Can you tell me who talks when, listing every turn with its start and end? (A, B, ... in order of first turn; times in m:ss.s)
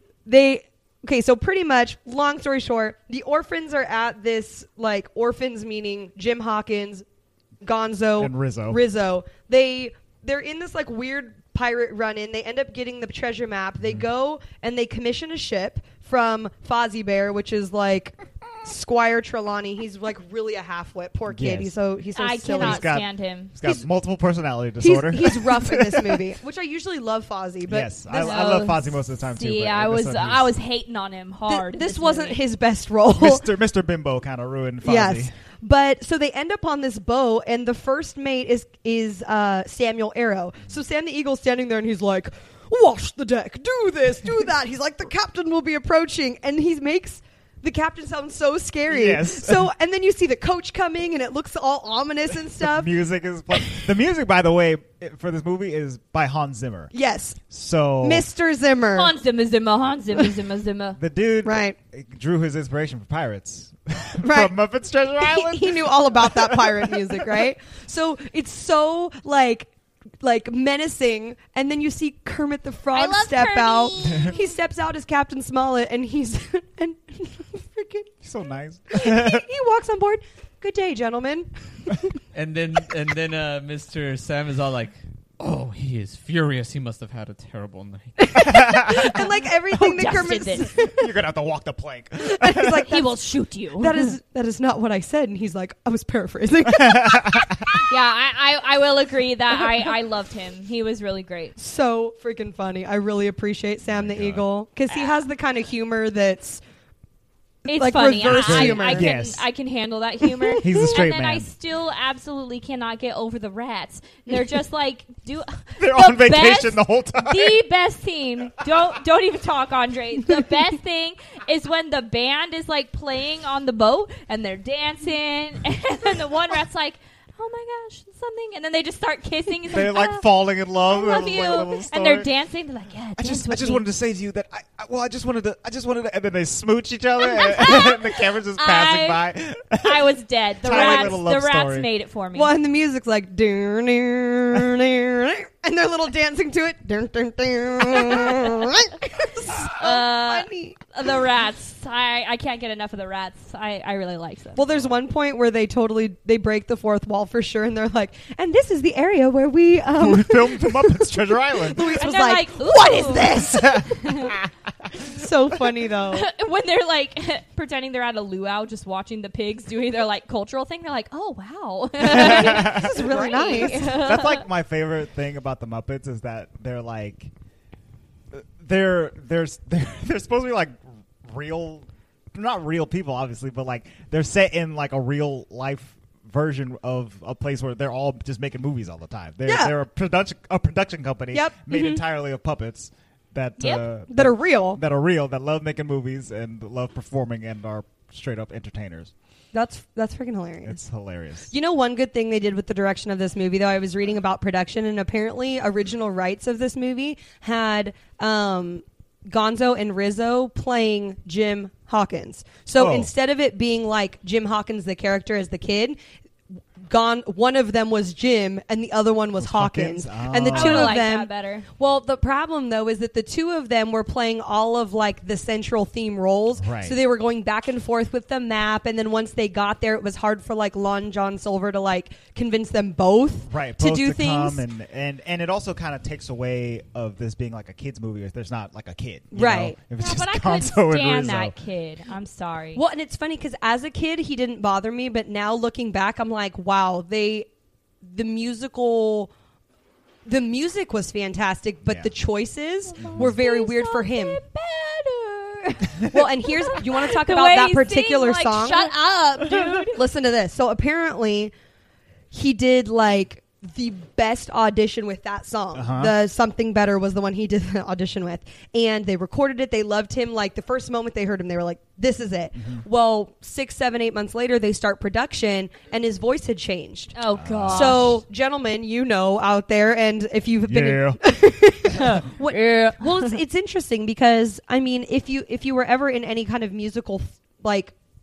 0:00.2-0:07.0 A
0:07.6-0:22.9 A
0:08.2-0:08.8 B
0:21.3-0:21.7 B
0:22.2-0:23.6 C
0:22.6-0:26.3 B
0:24.8-0:27.9 A
0:27.7-0:30.5 B
0:28.1-0:32.4 C
0:31.5-0:33.4 A
0:33.1-0:35.3 B
0:34.8-0:52.9 A
0:48.9-0:49.7 B
0:52.6-0:56.9 B
0:56.9-0:57.4 A
0:57.5-0:58.3 B
0:58.0-0:59.1 A
0:59.0-1:01.0 C
1:01.0-1:07.5 B
1:01.4-1:01.8 A
1:04.2-1:04.5 A
1:05.2-1:18.1 A
1:12.9-1:14.5 C
1:18.2-1:19.4 B
1:18.9-1:22.1 A
1:22.3-1:28.5 D
1:28.2-1:31.1 A
1:28.4-1:29.2 B
1:29.7-1:30.7 C
1:31.0-1:32.9 B
1:32.2-1:33.1 A
1:32.9-1:34.1 C
1:33.8-1:37.8 A
1:36.7-1:37.6 B
1:37.7-1:41.6 C
1:41.6-1:46.6 A
1:43.9-1:44.5 B
1:47.7-2:13.8 C
1:47.7-1:49.1 A
1:48.2-1:49.5 B
1:50.4-1:50.8 A
1:50.6-1:51.5 B
1:55.8-1:57.6 B
2:09.7-2:12.3 B
2:13.2-2:20.1 B
2:17.2-2:19.3 C
2:19.8-2:22.5 C
2:20.6-2:21.9 B
2:20.7-2:21.2 A
2:22.3-2:30.8 A
2:29.8-2:34.6 C
2:34.6-2:44.0 A
2:40.0-2:42.0 B
2:42.0-2:44.3 C
2:43.4-2:45.2 B
2:45.0-2:46.3 A
2:46.1-2:54.4 C
2:52.0-2:53.1 B
2:52.0-2:54.0 A
2:53.7-2:57.3 B
2:58.3-3:19.1 B
3:09.5-3:09.7 A
3:11.3-3:12.0 A
3:13.6-3:13.8 C
3:14.1-3:14.8 A
3:19.5-3:20.8 A
3:20.6-3:21.5 B
3:21.5-3:36.0 A
3:32.8-3:33.1 B
3:36.8-3:54.6 A
3:39.4-3:41.0 B
3:40.5-3:41.7 C
3:46.6-3:47.0 B
3:53.5-4:01.6 B
3:59.3-3:59.8 A
4:00.0-4:02.8 C
4:02.8-4:07.5 A
4:08.0-4:09.3 A
4:10.2-4:14.4 A
4:11.8-4:12.1 B
4:12.9-4:20.0 C
4:13.0-4:13.4 B
4:16.0-4:21.5 A
4:22.3-4:37.2 A
4:25.7-4:26.2 B
4:32.6-4:32.8 B
4:37.2-4:38.1 C
4:37.3-4:38.2 B
4:37.7-4:48.0 A
4:40.6-4:41.2 B
4:41.9-4:43.4 C